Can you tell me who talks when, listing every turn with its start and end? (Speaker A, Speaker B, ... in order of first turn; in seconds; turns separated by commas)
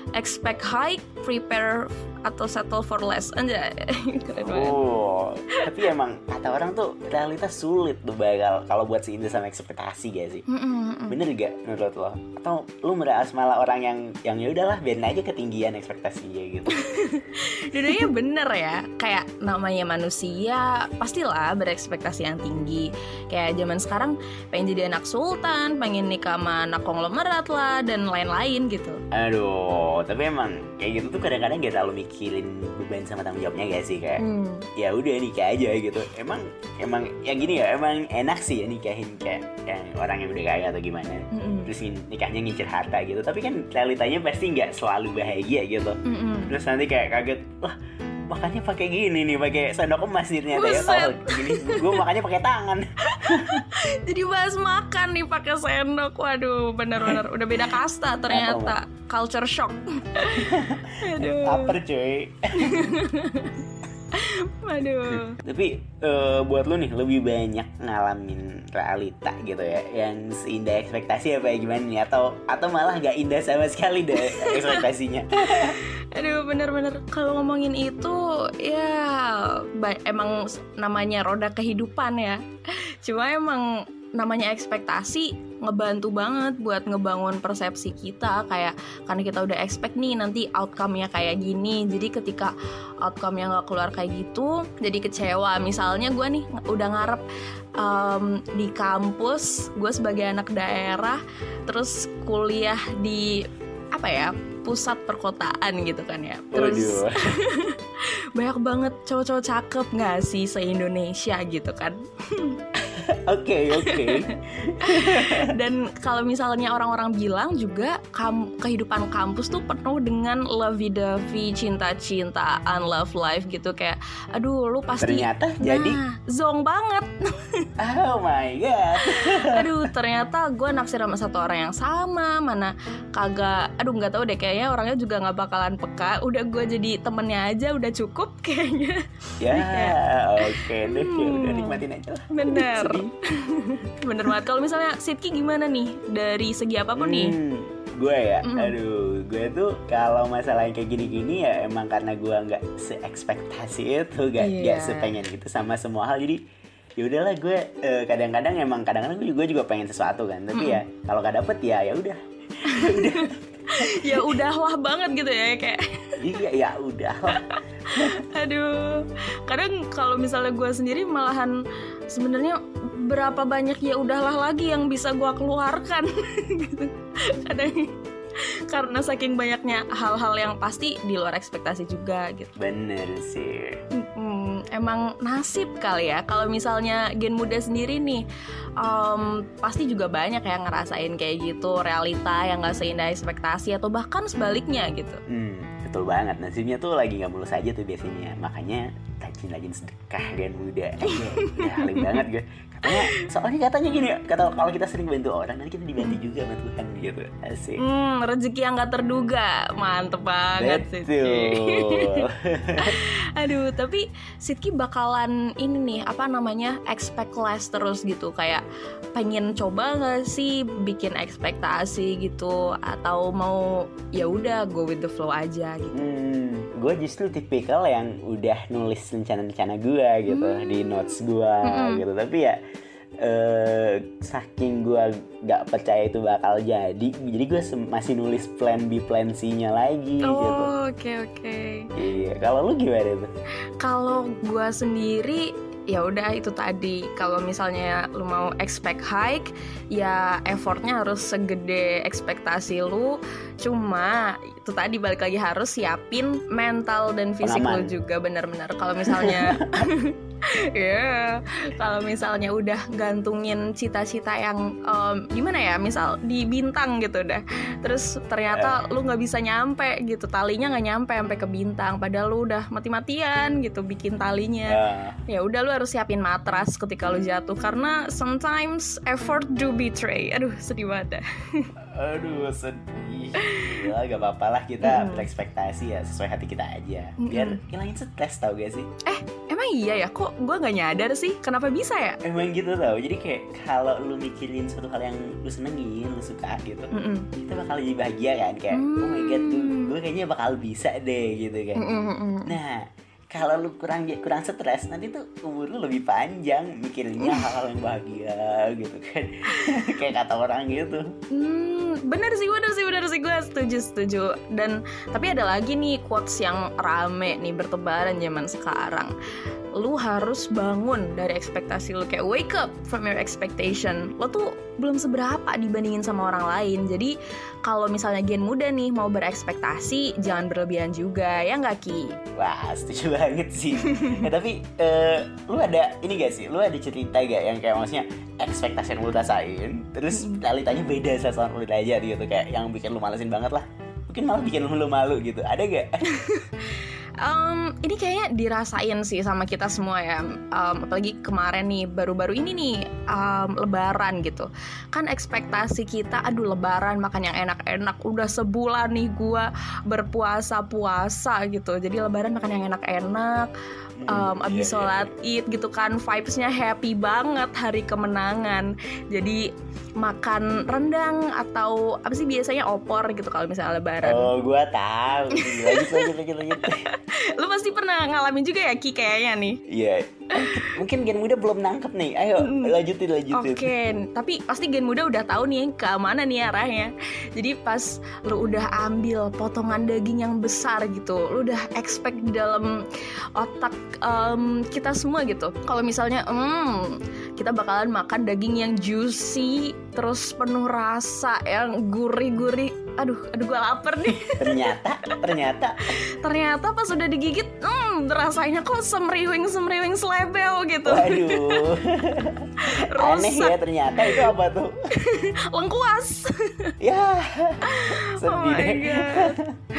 Speaker A: 0.1-4.8, Speaker B: 4.4-10.4, Speaker A: 10.5-11.2, Speaker B: 11.1-16.8, Speaker A: 16.7-29.0, Speaker B: 17.7-18.1, Speaker B: 29.1-34.2, Speaker A: 34.2-34.6, Speaker B: 34.8-47.8, Speaker A: 41.3-41.7, Speaker A: 46.0-46.5, Speaker B: 48.3-53.6, Speaker A: 50.5-52.0, Speaker A: 53.1-61.8, Speaker B: 57.0-57.2, Speaker B: 58.3-58.8, Speaker B: 60.3-62.9, Speaker A: 62.5-63.6, Speaker A: 64.1-65.4, Speaker B: 65.1-75.8, Speaker A: 74.1-74.9, Speaker A: 75.4-82.4, Speaker A: 83.0-92.5, Speaker A: 93.0-97.2, Speaker A: 97.8-103.4, Speaker A: 103.9-107.8, Speaker B: 106.5-107.2, Speaker A: 108.3-112.6, Speaker B: 112.9-115.5, Speaker A: 113.7-114.3, Speaker A: 114.8-127.7, Speaker B: 125.0-126.0, Speaker B: 127.8-129.9, Speaker A: 129.0-147.4, Speaker B: 139.4-143.1, Speaker B: 147.0-156.4, Speaker A: 148.4-148.7, Speaker A: 154.4-155.1, Speaker B: 157.0-164.4, Speaker A: 160.5-160.8, Speaker A: 162.6-166.1, Speaker B: 166.2-168.2, Speaker A: 167.3-171.5, Speaker A: 172.1-177.9, Speaker A: 178.7-182.5, Speaker B: 182.6-183.8, Speaker A: 183.9-188.2, Speaker A: 188.8-195.2, Speaker B: 195.3-207.8, Speaker A: 201.1-202.2, Speaker A: 202.9-203.2, Speaker A: 207.8-212.2, Speaker B: 210.5-213.0, Speaker A: 212.8-218.6, Speaker A: 219.1-226.1, Speaker B: 225.9-232.6, Speaker A: 230.3-232.0, Speaker B: 233.2-240.7, Speaker A: 240.2-241.9, Speaker B: 241.9-243.3, Speaker A: 243.8-281.7, Speaker B: 257.4-257.9, Speaker B: 259.0-259.9, Speaker B: 268.5-268.8, Speaker B: 274.7-275.2, Speaker B: 281.9-288.9, Speaker A: 283.4-283.9, Speaker A: 284.8-285.3, Speaker A: 287.2-287.6, Speaker A: 289.1-292.2, Speaker B: 292.2-301.8, Speaker A: 296.9-297.3, Speaker A: 298.7-299.9, Speaker A: 301.7-302.6, Speaker B: 302.4-311.1, Speaker A: 307.2-307.6, Speaker A: 311.3-319.1, Speaker A: 319.8-327.1, Speaker A: 327.6-332.1, Speaker B: 332.4-346.0, Speaker A: 333.8-334.3, Speaker A: 340.1-340.4, Speaker A: 346.1-363.5, Speaker B: 364.0-365.1, Speaker A: 364.1-369.4, Speaker A: 370.0-374.3, Speaker B: 374.0-376.9, Speaker A: 375.3-379.6, Speaker B: 379.7-383.7, Speaker A: 380.3-380.8, Speaker A: 382.4-382.7, Speaker A: 383.3-392.8, Speaker A: 393.4-405.3, Speaker B: 404.1-405.8, Speaker A: 405.9-411.6, Speaker B: 410.8-414.7, Speaker A: 412.6-414.3, Speaker A: 415.0-416.7, Speaker B: 416.8-419.5, Speaker A: 417.6-419.4